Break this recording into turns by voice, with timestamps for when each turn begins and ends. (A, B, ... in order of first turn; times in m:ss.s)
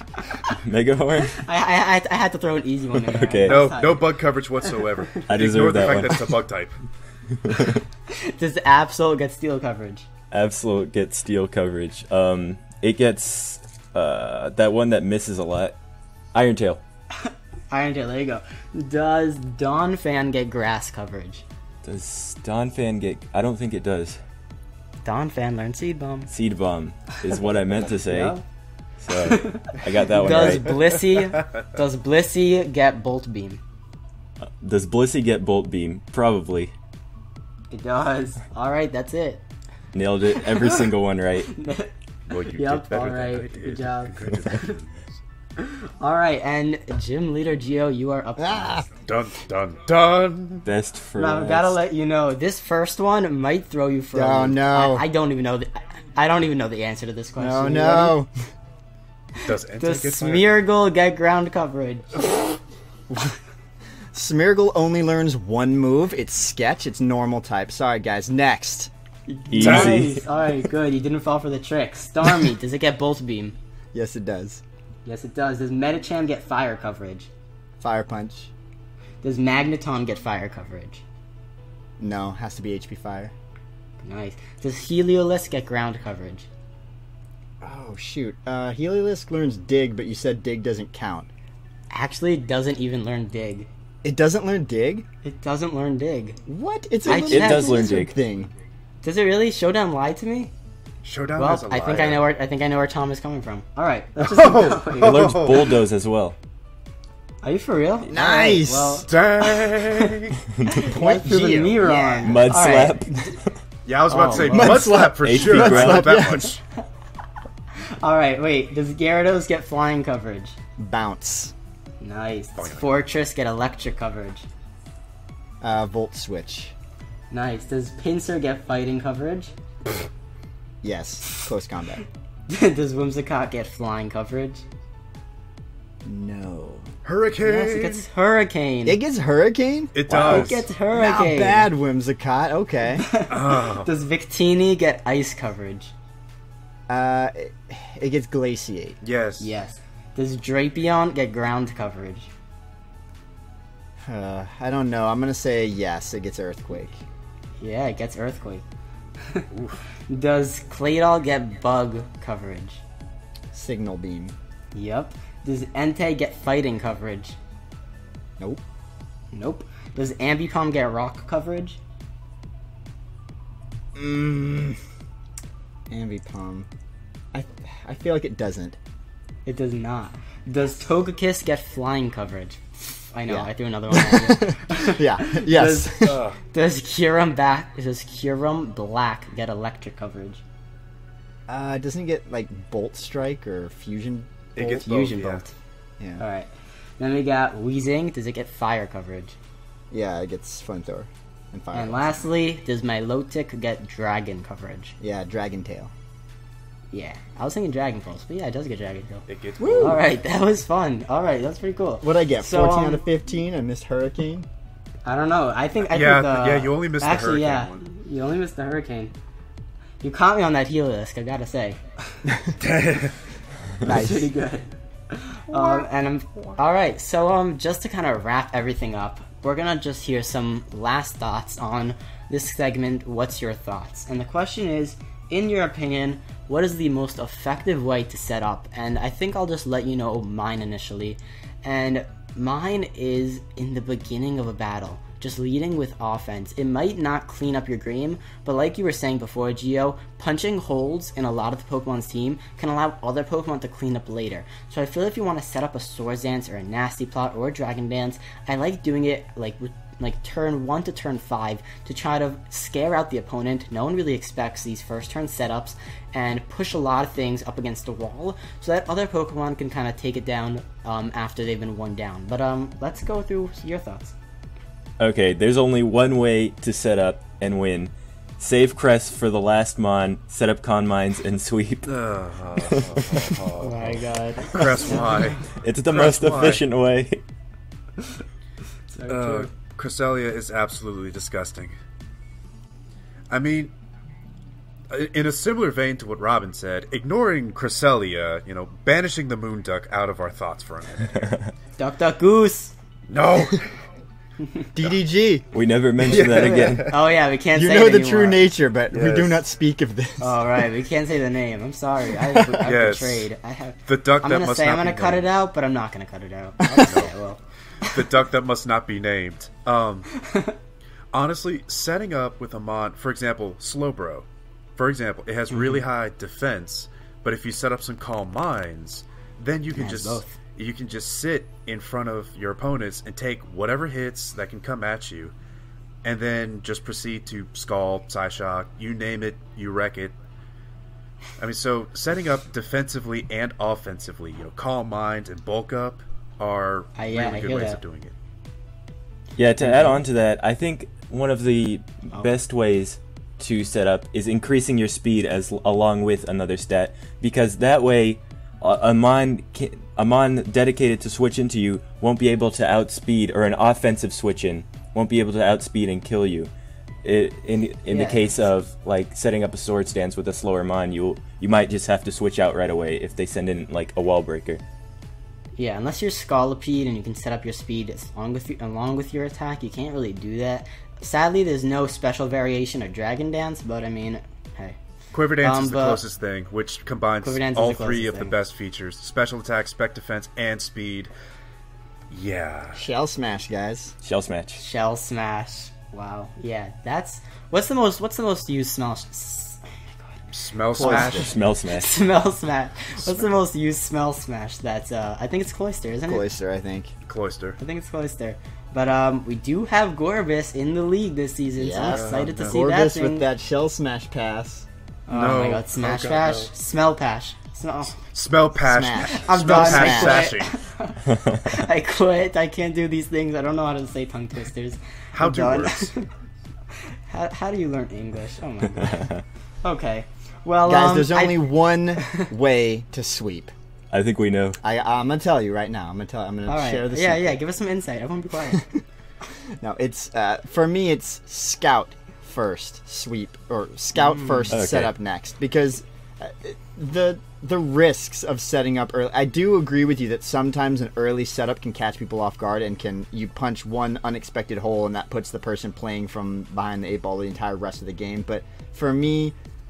0:00.5-0:01.4 A
0:01.3-0:04.2 B
0:03.0-0:03.7 A
0:03.4-0:06.8 C
0:04.8-0:05.2 B
0:05.3-0:06.4 A
0:07.4-0:07.8 A
0:08.1-0:10.1 B
0:10.3-0:15.8 A
0:16.3-0:16.8 A
0:17.1-0:21.4 B
0:21.8-0:24.2 A
0:25.0-0:26.3 B
0:26.3-0:28.4 A
0:28.0-0:28.4 B
0:29.0-0:30.9 A
0:29.1-0:33.6 B
0:34.5-0:36.7 A
0:37.7-0:39.4 B
0:39.9-0:41.6 A
0:40.4-0:40.8 B
0:41.5-0:41.9 B
0:42.3-0:45.2 C
0:42.5-0:44.8 B
0:45.6-0:48.9 B
0:48.4-0:48.9 D
0:49.0-0:50.7 C
0:50.6-0:51.8 A
0:51.2-0:58.2 B
0:54.1-0:55.0 D
0:57.4-0:58.3 D
0:59.4-1:00.5 C
0:59.7-1:02.5 B
1:03.1-1:03.4 D
1:04.1-1:08.9 D
1:09.3-1:13.6 B
1:09.5-1:10.2 A
1:09.6-1:10.1 C
1:13.9-1:14.6 D
1:15.0-1:17.3 B
1:17.8-1:18.5 D
1:19.2-1:21.0 B
1:22.0-1:23.3 D
1:24.0-1:26.5 B
1:27.6-1:31.3 D
1:31.9-1:33.7 B
1:34.0-1:35.1 D
1:35.2-1:36.4 B
1:36.5-1:38.5 D
1:37.1-1:37.9 B
1:37.1-1:38.1 A
1:39.0-1:40.5 B
1:41.0-1:42.3 C
1:41.4-1:45.4 B
1:44.2-1:45.8 C
1:44.9-1:46.4 A
1:47.4-1:50.1 B
1:48.1-1:49.1 D
1:49.1-1:50.4 C
1:50.6-1:53.0 B
1:50.8-1:52.4 D
1:51.4-1:51.9 C
1:52.2-1:53.6 A
1:53.8-1:56.6 C
1:54.1-1:54.8 B
1:54.3-1:56.6 D
1:54.6-1:56.3 A
1:57.8-2:00.6 B
2:00.8-2:01.5 D
2:02.0-2:04.5 B
2:02.6-2:03.1 C
2:05.6-2:06.7 D
2:07.3-2:09.5 B
2:10.8-2:12.0 D
2:12.5-2:14.6 B
2:16.0-2:16.9 D
2:17.0-2:18.1 C
2:17.4-2:19.0 B
2:18.9-2:23.1 D
2:19.9-2:20.7 C
2:20.1-2:21.7 B
2:23.0-2:25.9 B
2:23.3-2:23.9 C
2:26.9-2:29.0 D
2:29.0-2:29.6 C
2:29.4-2:32.3 B
2:34.0-2:37.0 D
2:37.6-2:38.6 B
2:39.2-2:39.5 B
2:39.5-2:39.8 C
2:40.1-2:42.8 B
2:43.5-2:44.4 D
2:44.7-2:47.4 B
2:49.3-2:51.8 B
2:53.9-2:54.8 D
2:55.9-2:56.7 D
2:57.3-2:58.8 D
2:59.5-3:10.4 B
3:03.3-3:06.3 D
3:06.0-3:06.4 C
3:11.5-3:14.9 D
3:14.6-3:15.4 C
3:14.6-3:15.5 B
3:16.2-3:19.4 B
3:19.9-3:22.3 D
3:21.7-3:24.9 B
3:25.0-3:25.9 D
3:26.9-3:33.0 B
3:29.3-3:30.0 C
3:29.6-3:30.0 D
3:32.0-3:34.5 D
3:35.0-3:39.1 B
3:35.8-3:37.8 C
3:40.0-3:42.2 B
3:42.3-3:42.6 D
3:42.6-3:43.2 C
3:43.8-3:44.3 D
3:43.8-4:34.1 B
4:35.0-4:42.0 A
4:41.8-4:46.6 C
4:42.6-4:43.3 A
4:43.6-4:45.4 B
4:45.5-4:47.2 A
4:48.9-4:49.5 B
4:49.1-4:51.8 C
4:53.3-4:53.7 C
4:54.9-5:01.4 C
5:01.8-5:02.7 B
5:03.1-5:03.8 C
5:04.8-5:05.5 D
5:05.5-5:07.0 A
5:06.0-5:07.0 C
5:06.4-5:08.5 B
5:07.5-5:10.6 D
5:08.9-5:09.4 C
5:10.2-5:17.4 B
5:12.1-5:12.7 D
5:12.6-5:13.3 C
5:13.9-5:15.4 C
5:16.6-5:17.0 D
5:16.8-5:17.1 C
5:17.8-5:20.1 C
5:20.2-5:20.6 B
5:21.1-5:35.3 C
5:29.7-5:30.4 B
5:36.0-5:40.2 C
5:41.4-5:48.1 C
5:47.0-5:47.8 B
5:49.4-6:06.5 A
5:49.6-5:50.0 B
6:07.0-6:14.6 A
6:07.9-6:08.3 B
6:15.6-6:24.8 B
6:25.1-6:31.1 C
6:25.4-6:26.0 B
6:27.2-6:28.4 B
6:32.1-6:32.8 C
6:32.7-6:33.9 D
6:34.0-6:34.6 A
6:34.6-6:40.3 B
6:40.3-6:41.4 C
6:40.7-6:41.4 D
6:40.8-6:41.1 B
6:41.0-6:41.9 A
6:41.7-6:46.2 B
6:46.1-6:46.9 D
6:47.0-6:47.6 C
6:47.6-6:53.3 B
6:51.6-6:54.7 D
6:51.9-6:52.6 C
6:55.1-6:58.0 B
6:55.1-6:56.5 C
6:58.0-7:00.6 C
6:58.6-7:00.3 D
6:59.1-7:06.0 B
7:01.1-7:01.4 A
7:05.1-7:05.9 C
7:06.9-7:09.1 B
7:08.9-7:09.2 A
7:09.6-7:11.5 B
7:10.6-7:13.5 D
7:13.9-7:14.6 A
7:14.6-7:17.4 D
7:16.5-7:18.7 B
7:18.5-7:18.8 D
7:19.5-7:39.4 D
7:24.5-7:24.9 A